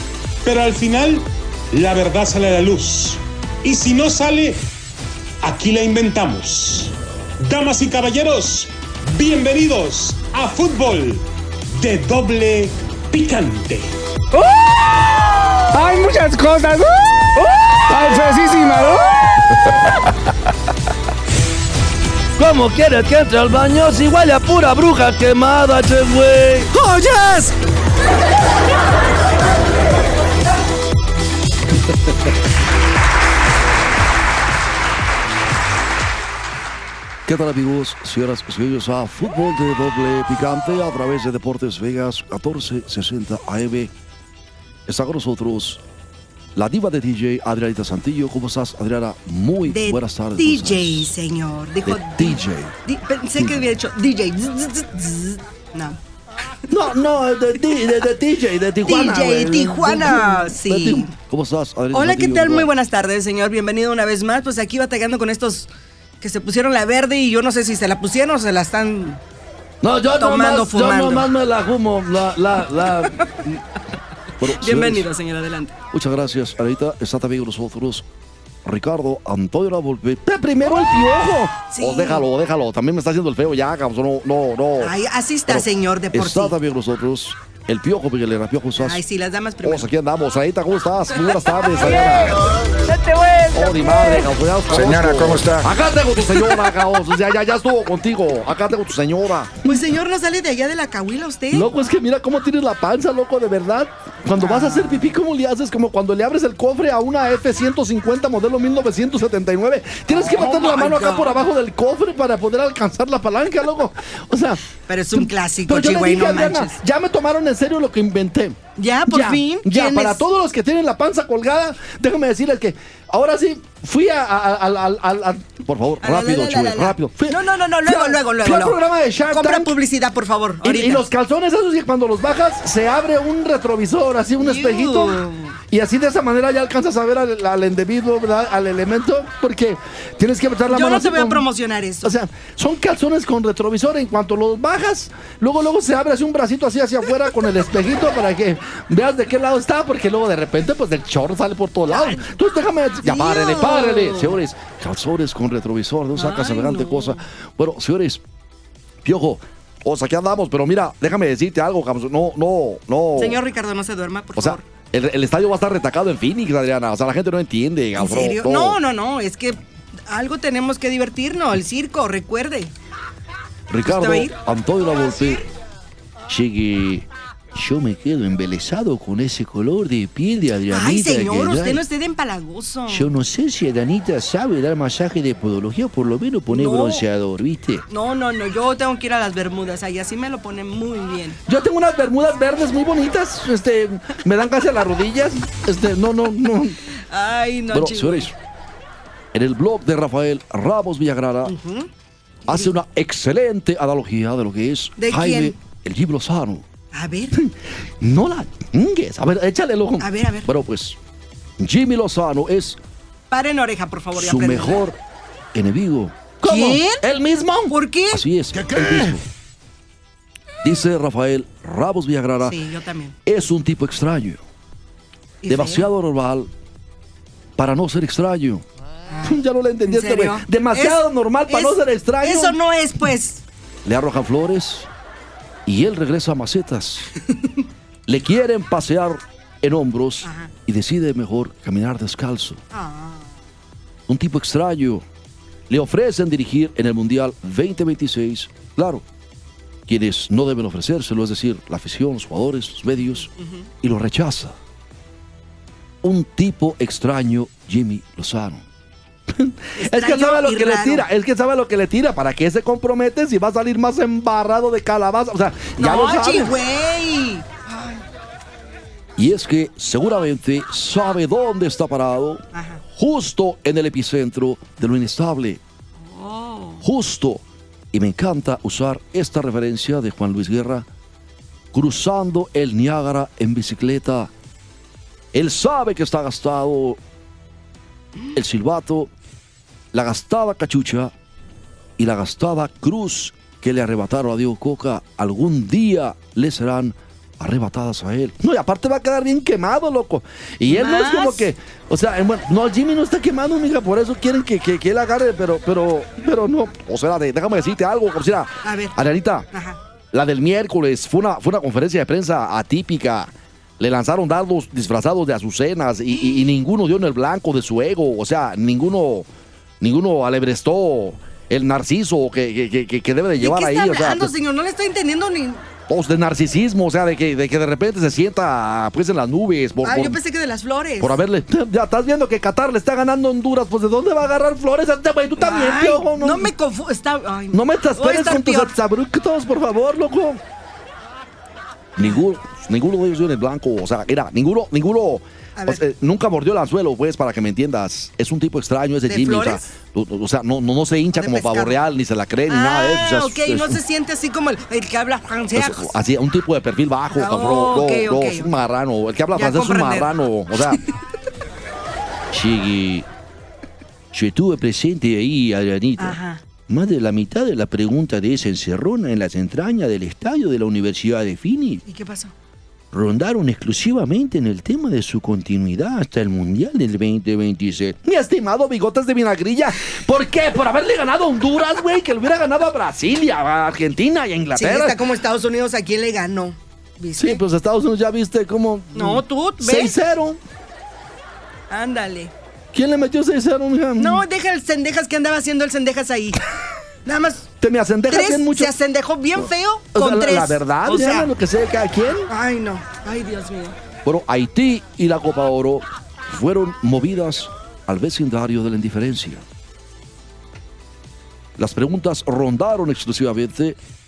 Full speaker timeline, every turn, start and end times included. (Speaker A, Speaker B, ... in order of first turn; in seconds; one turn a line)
Speaker A: 0.4-4.6
Speaker A: 5.4-14.0
Speaker B: 15.7-17.0
Speaker B: 17.9-19.1
Speaker C: 22.4-26.7
Speaker D: 26.7-27.5
Speaker C: 31.9-32.1
Speaker C: 37.2-43.9
Speaker C: 44.9-45.8
Speaker C: 46.5-51.1
Speaker D: 49.6-56.0
Speaker C: 51.8-52.8
Speaker C: 53.4-53.6
Speaker C: 56.7-62.7
Speaker D: 57.7-57.9
Speaker D: 58.8-61.1
Speaker D: 61.9-69.2
Speaker C: 69.8-73.6
Speaker D: 70.1-71.3
Speaker D: 72.8-73.4
Speaker C: 74.4-75.1
Speaker D: 74.4-75.7
Speaker C: 75.9-78.0
Speaker C: 78.6-85.0
Speaker D: 81.7-82.2
Speaker D: 84.8-86.6
Speaker C: 85.5-89.0
Speaker D: 88.8-89.9
Speaker C: 89.6-92.5
Speaker B: 92.8-93.5
Speaker C: 93.5-99.8
Speaker B: 94.7-95.7
Speaker D: 99.6-101.7
Speaker C: 101.5-114.6
Speaker D: 104.4-105.1
Speaker D: 110.1-111.4
Speaker D: 114.9-116.8
Speaker C: 115.1-129.7
Speaker D: 118.8-120.2
Speaker D: 126.0-131.1
Speaker C: 130.6-141.4
Speaker D: 134.4-135.6
Speaker D: 140.7-142.1
Speaker C: 142.0-158.2
Speaker D: 151.9-152.3
Speaker D: 153.0-154.4
Speaker D: 156.1-157.2
Speaker C: 159.0-163.4
Speaker D: 163.2-164.7
Speaker C: 164.3-168.8
Speaker D: 167.9-172.7
Speaker C: 173.7-175.5
Speaker D: 173.8-174.3
Speaker C: 176.3-181.8
Speaker D: 180.7-183.1
Speaker C: 182.9-187.8
Speaker D: 186.5-187.0
Speaker D: 187.9-191.4
Speaker C: 191.4-196.8
Speaker D: 196.9-198.3
Speaker C: 197.7-198.3
Speaker C: 199.3-201.5
Speaker D: 201.4-201.9
Speaker D: 202.4-202.7
Speaker C: 202.5-206.7
Speaker D: 205.0-205.6
Speaker D: 206.9-207.4
Speaker C: 207.3-211.0
Speaker D: 210.0-210.5
Speaker C: 211.6-212.8
Speaker D: 213.3-214.9
Speaker C: 214.1-215.0
Speaker C: 215.5-219.2
Speaker D: 216.4-217.0
Speaker D: 217.7-218.2
Speaker C: 220.6-222.6
Speaker D: 222.4-223.2
Speaker C: 223.2-224.4
Speaker D: 225.4-225.9
Speaker C: 225.5-226.5
Speaker C: 227.6-228.6
Speaker D: 229.1-233.4
Speaker C: 229.2-232.6
Speaker C: 233.8-234.9
Speaker C: 235.7-237.1
Speaker C: 238.1-242.6
Speaker D: 240.2-240.5
Speaker D: 242.7-243.3
Speaker C: 244.1-245.0
Speaker C: 245.7-249.0
Speaker C: 249.9-253.3
Speaker D: 253.3-253.7
Speaker C: 253.8-254.6
Speaker C: 256.0-258.6
Speaker C: 259.3-266.5
Speaker D: 259.8-261.1
Speaker D: 265.8-268.0
Speaker C: 269.2-275.6
Speaker D: 272.5-272.8
Speaker D: 276.0-276.8
Speaker C: 276.8-280.9
Speaker C: 281.7-284.3
Speaker C: 285.3-287.0
Speaker C: 288.3-289.1
Speaker C: 289.9-291.1
Speaker C: 292.0-309.5
Speaker D: 300.7-301.5
Speaker D: 308.6-308.9
Speaker D: 309.5-309.8
Speaker C: 310.1-319.3
Speaker C: 319.8-324.3
Speaker D: 323.4-325.6
Speaker C: 325.9-330.2
Speaker D: 329.8-331.2
Speaker C: 331.0-336.5
Speaker D: 335.4-338.7
Speaker C: 337.5-340.4
Speaker C: 341.9-353.8
Speaker D: 345.6-345.8
Speaker D: 349.1-349.7
Speaker D: 351.1-351.8
Speaker D: 352.5-355.9
Speaker C: 355.5-360.8
Speaker D: 357.1-358.5
Speaker D: 359.3-360.8
Speaker C: 362.3-363.1
Speaker C: 364.1-371.8
Speaker D: 366.0-366.4
Speaker D: 371.9-372.3
Speaker C: 372.9-385.0
Speaker D: 384.5-387.4
Speaker C: 387.2-390.4
Speaker D: 388.9-389.9
Speaker D: 391.7-392.3
Speaker C: 392.7-394.2
Speaker D: 394.0-396.4
Speaker D: 397.0-397.5
Speaker C: 397.6-398.7
Speaker D: 398.1-401.3
Speaker C: 399.9-402.3
Speaker D: 402.3-403.8
Speaker C: 404.0-409.4
Speaker C: 411.6-413.8